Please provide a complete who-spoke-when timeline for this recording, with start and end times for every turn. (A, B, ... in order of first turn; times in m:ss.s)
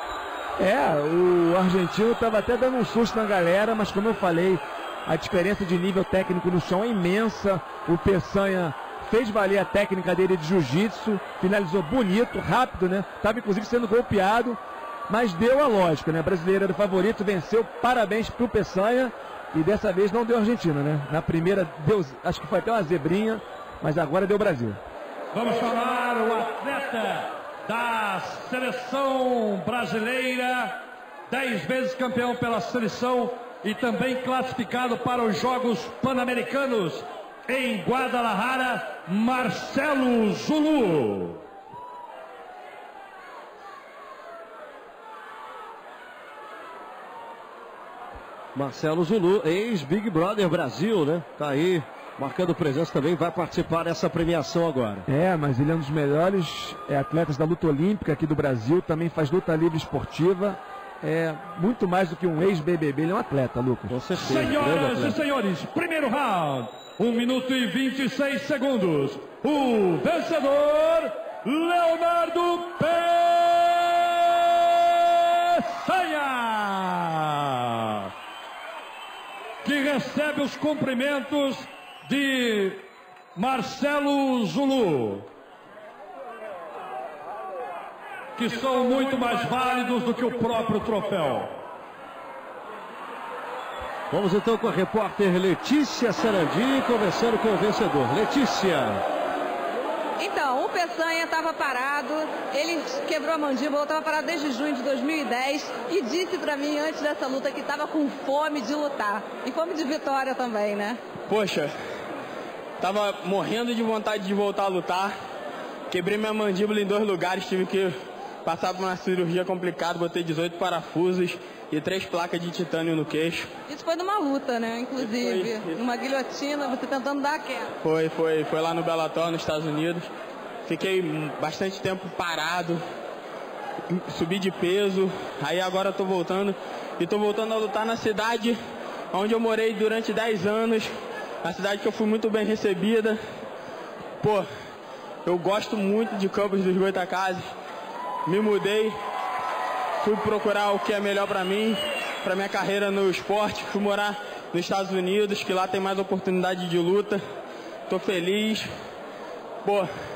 0:00.6-0:24.8 A
0:25.3-0:41.4 B
0:48.5-0:55.0 C
0:55.0-1:03.9 A
1:03.9-1:05.2 C
1:04.2-1:14.2 B
1:15.5-1:17.3 B
1:17.8-1:18.1 B
1:19.6-1:25.3 B
1:28.4-1:31.6 B
1:34.1-1:39.0 C
1:40.2-1:51.0 D
1:51.3-1:51.7 E
1:52.8-1:55.1 E
1:55.9-2:03.5 E
2:03.7-2:07.8 D
2:05.0-2:05.8 E
2:07.8-2:10.1 E
2:10.7-2:12.8 E
2:13.9-2:18.6 E
2:19.1-2:23.2 E
2:24.2-2:24.4 E
2:25.2-2:27.5 E
2:28.2-2:29.0 E
2:30.0-2:37.2 E
2:37.9-2:38.7 E